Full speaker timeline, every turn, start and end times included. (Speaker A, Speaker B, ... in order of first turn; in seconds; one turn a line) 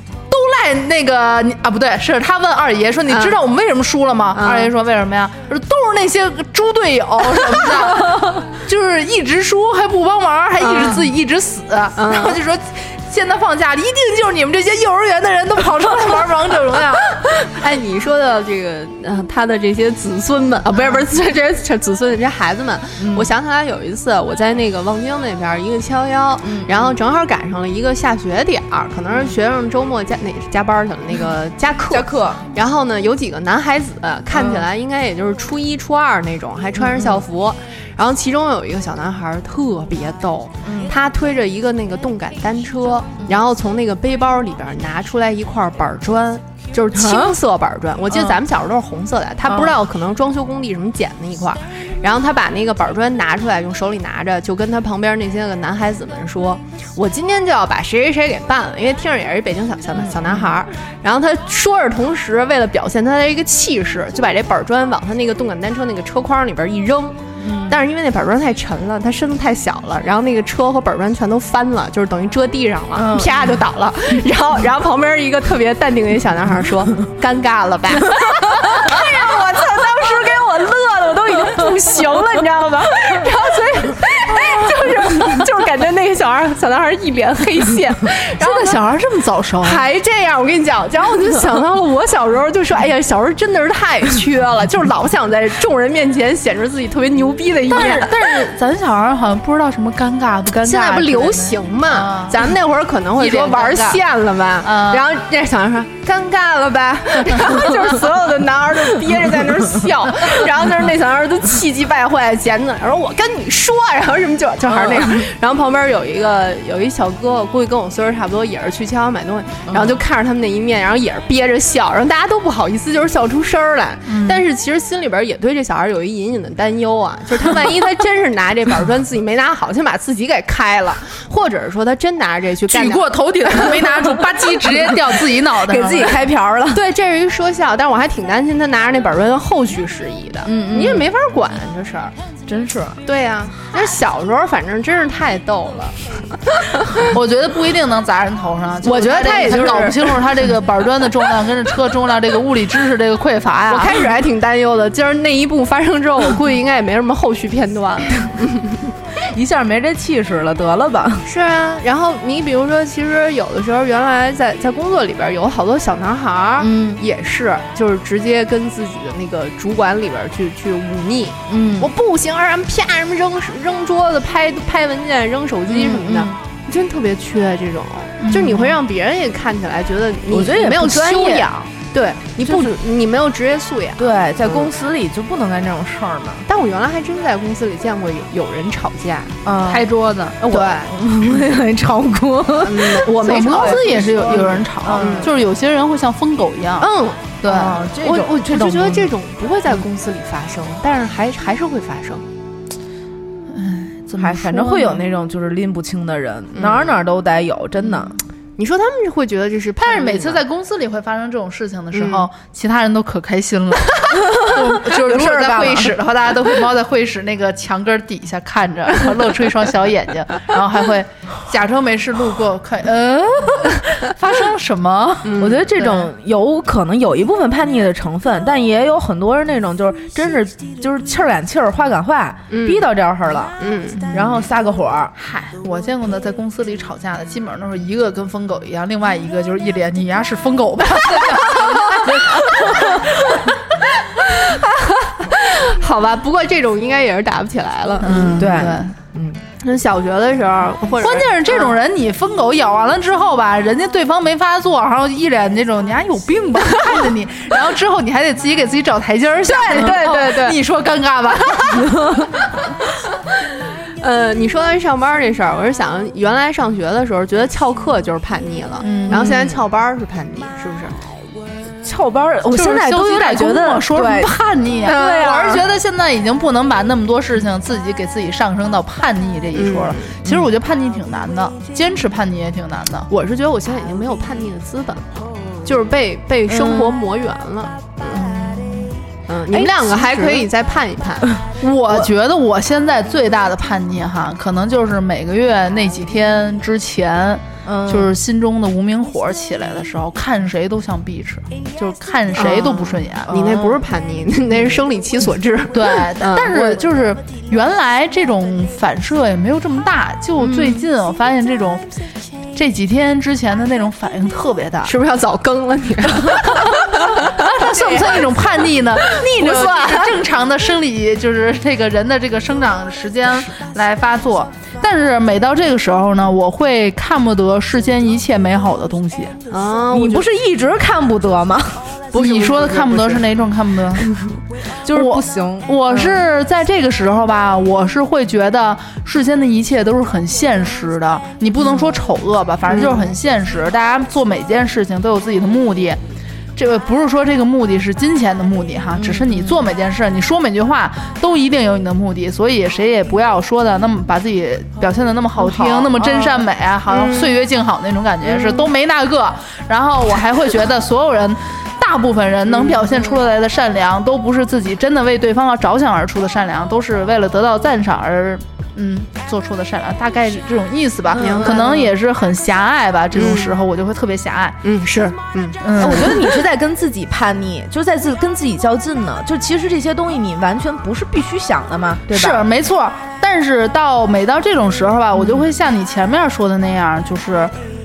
Speaker A: 0.3-17.2
Speaker B: 3.1-3.4
Speaker B: 4.3-4.7
Speaker B: 10.6-11.1
Speaker B: 12.0-12.4
Speaker B: 17.5-88.8
Speaker C: 23.0-23.3
Speaker C: 26.4-26.9
Speaker C: 31.9-32.5
Speaker C: 34.4-34.6
Speaker C: 36.8-37.1
Speaker C: 40.6-40.9
Speaker C: 46.9-47.3
Speaker C: 49.5-49.8
Speaker C: 60.0-60.5
Speaker C: 67.4-67.8
Speaker C: 73.0-73.3
Speaker A: 88.4-89.8
Speaker B: 89.6-98.2
Speaker A: 97.7-102.5
Speaker B: 100.6-133.9
Speaker A: 103.2-104.0
Speaker A: 104.6-105.1
Speaker C: 114.7-115.1
Speaker C: 119.7-120.0
Speaker A: 124.1-124.4
Speaker A: 132.7-136.2
Speaker C: 135.6-136.8
Speaker B: 136.7-142.1
Speaker C: 140.5-141.1
Speaker C: 142.5-143.0
Speaker B: 143.1-147.1
Speaker A: 147.1-154.0
Speaker B: 148.8-150.2
Speaker C: 149.3-149.9
Speaker B: 153.7-158.8
Speaker C: 159.3-161.3
Speaker B: 161.2-184.7
Speaker C: 166.6-167.0
Speaker C: 171.5-171.9
Speaker C: 175.7-176.4
Speaker A: 178.2-178.8
Speaker C: 180.3-181.5
Speaker C: 182.4-182.7
Speaker C: 184.0-186.4
Speaker B: 186.5-189.4
Speaker C: 189.4-189.9
Speaker A: 189.7-190.4
Speaker B: 190.4-190.9
Speaker C: 190.5-195.3
Speaker B: 192.6-195.3
Speaker A: 193.0-196.9
Speaker B: 196.8-197.4
Speaker A: 197.4-198.2
Speaker C: 197.4-199.1
Speaker B: 197.9-202.2
Speaker A: 203.5-205.1
Speaker C: 204.2-208.2
Speaker B: 206.5-207.0
Speaker B: 208.6-210.4
Speaker A: 209.8-225.8
Speaker B: 211.9-212.3
Speaker C: 214.3-215.9
Speaker B: 225.2-225.7
Speaker C: 225.4-233.6
Speaker B: 232.5-232.9
Speaker B: 233.6-234.1
Speaker A: 234.1-234.4
Speaker C: 234.1-235.2
Speaker A: 235.3-243.5
Speaker C: 242.5-242.9
Speaker B: 244.3-248.4
Speaker A: 248.0-248.9
Speaker C: 248.4-249.4
Speaker B: 249.6-251.8
Speaker A: 251.0-262.1
Speaker C: 259.5-260.6
Speaker B: 259.7-260.4
Speaker C: 261.7-262.3
Speaker B: 264.0-271.1
Speaker A: 268.8-269.4
Speaker C: 269.1-269.6
Speaker C: 271.8-274.3
Speaker A: 272.5-283.1
Speaker C: 274.9-275.6
Speaker B: 274.9-275.5
Speaker B: 279.5-280.2
Speaker B: 283.1-288.3
Speaker C: 286.5-286.9
Speaker A: 288.1-288.9
Speaker B: 289.3-291.4
Speaker C: 289.5-290.2
Speaker A: 291.6-303.8
Speaker C: 297.6-298.1
Speaker B: 302.4-306.8
Speaker A: 305.7-311.9
Speaker C: 310.4-310.8
Speaker A: 312.6-314.9
Speaker B: 314.8-318.2
Speaker A: 317.3-329.4
Speaker B: 319.1-320.1
Speaker C: 319.4-319.7
Speaker B: 329.5-330.3
Speaker C: 329.9-331.8
Speaker B: 332.1-333.2
Speaker A: 332.1-334.1
Speaker C: 334.9-336.2
Speaker A: 334.9-346.0
Speaker B: 342.7-343.0
Speaker A: 346.6-374.6
Speaker C: 349.0-349.7
Speaker C: 355.4-356.4
Speaker B: 356.9-357.4
Speaker B: 362.5-362.8
Speaker C: 371.1-371.6
Speaker B: 371.2-371.9
Speaker B: 373.1-373.6
Speaker B: 374.6-375.6
Speaker A: 375.6-376.3
Speaker C: 375.8-382.4
Speaker A: 382.1-387.5
Speaker C: 385.1-385.5